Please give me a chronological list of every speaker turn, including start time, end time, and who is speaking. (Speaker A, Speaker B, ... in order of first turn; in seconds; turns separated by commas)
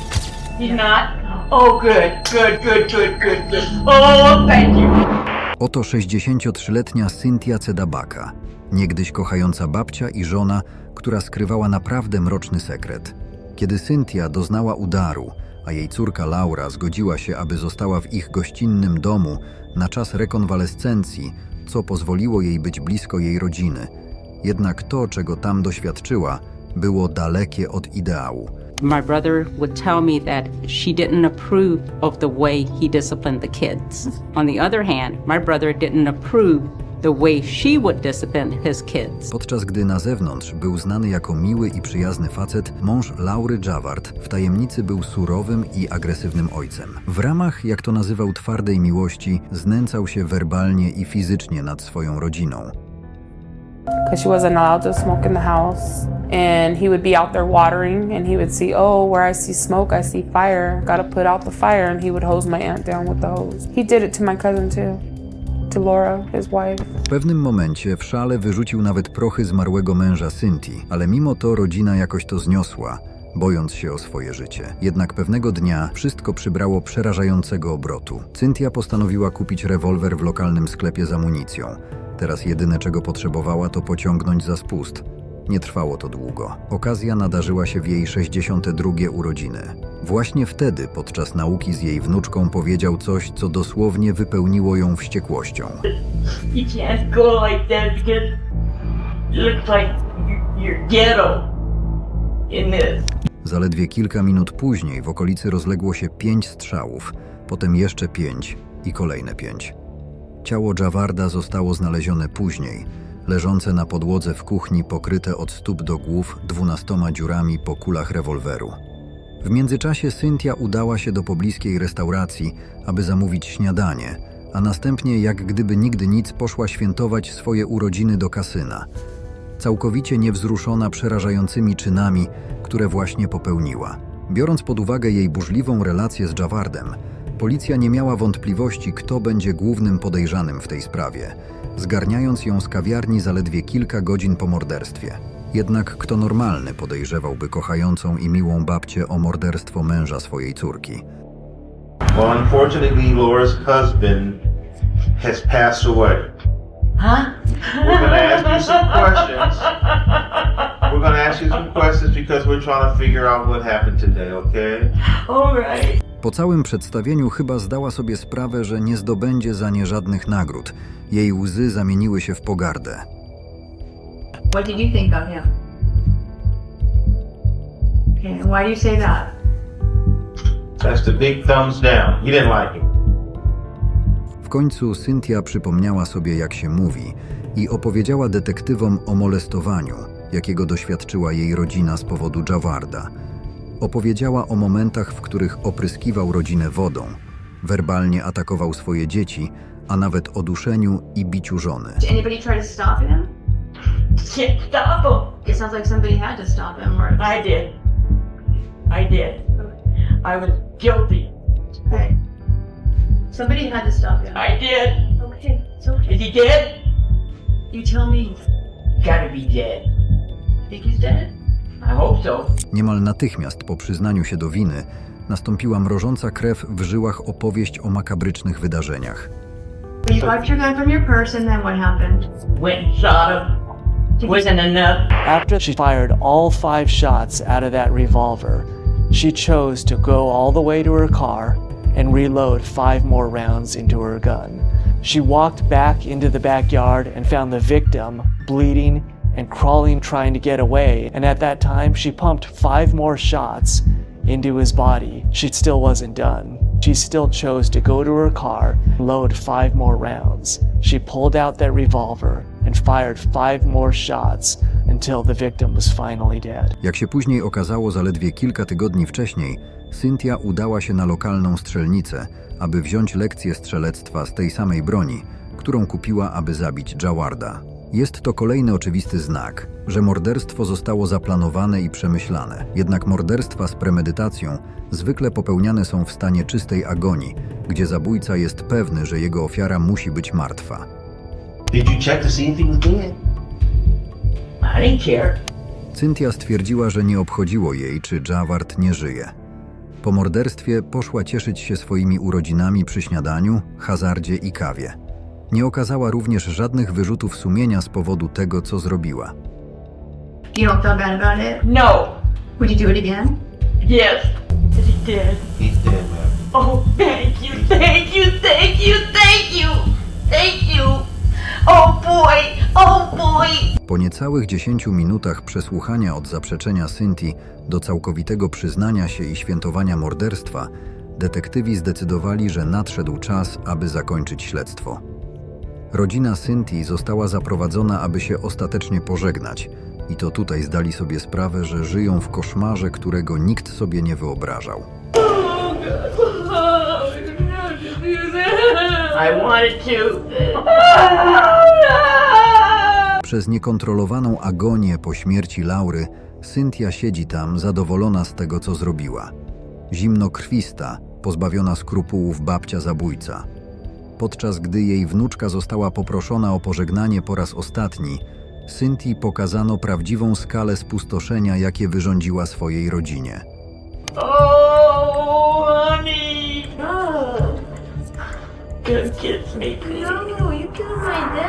Speaker A: 0.6-5.0, Speaker B: 5.6-23.9, Speaker B: 24.4-28.6, Speaker C: 28.8-39.3, Speaker B: 39.3-52.7, Speaker D: 54.1-65.0, Speaker D: 65.7-66.9, Speaker B: 67.1-95.8, Speaker A: 96.5-98.4, Speaker A: 99.3-101.5, Speaker A: 102.5-103.1, Speaker B: 103.4-109.7, Speaker B: 110.4-118.8, Speaker B: 119.4-128.9, Speaker B: 129.6-151.0, Speaker E: 152.1-154.4, Speaker E: 155.2-156.3, Speaker A: 157.0-160.4, Speaker E: 157.8-159.7, Speaker E: 160.8-164.9, Speaker A: 165.3-166.0, Speaker B: 166.2-173.1, Speaker F: 174.5-175.5, Speaker F: 178.2-179.3, Speaker E: 180.8-182.9, Speaker B: 184.4-193.1, Speaker B: 193.8-202.0, Speaker F: 202.0-203.3, Speaker A: 204.2-205.4, Speaker F: 205.4-207.4, Speaker A: 207.2-207.8, Speaker A: 208.9-209.4, Speaker A: 210.2-211.3, Speaker F: 211.9-212.2, Speaker F: 213.3-214.5, Speaker A: 214.3-215.0, Speaker F: 215.2-216.2, Speaker A: 216.1-216.8, Speaker F: 217.7-218.4, Speaker A: 219.0-219.9, Speaker F: 220.7-221.3, Speaker A: 221.8-222.5, Speaker B: 222.7-229.3, Speaker F: 230.1-232.3, Speaker A: 232.5-233.6, Speaker A: 234.2-235.1, Speaker G: 235.2-266.8, Speaker B: 266.8-290.9, Speaker E: 291.7-293.2, Speaker A: 294.6-295.4, Speaker B: 295.9-299.3, Speaker B: 300.0-305.0, Speaker B: 305.5-309.3, Speaker F: 310.5-311.6, Speaker A: 311.6-312.2, Speaker F: 312.6-313.4, Speaker A: 313.8-315.4, Speaker E: 315.6-316.4, Speaker A: 316.5-321.1, Speaker A: 321.7-323.7, Speaker B: 323.9-335.0, Speaker B: 335.9-344.9, Speaker A: 349.1-352.6, Speaker B: 353.2-359.3, Speaker B: 359.9-363.5, Speaker B: 364.2-373.4, Speaker A: 374.1-376.9, Speaker A: 378.8-380.4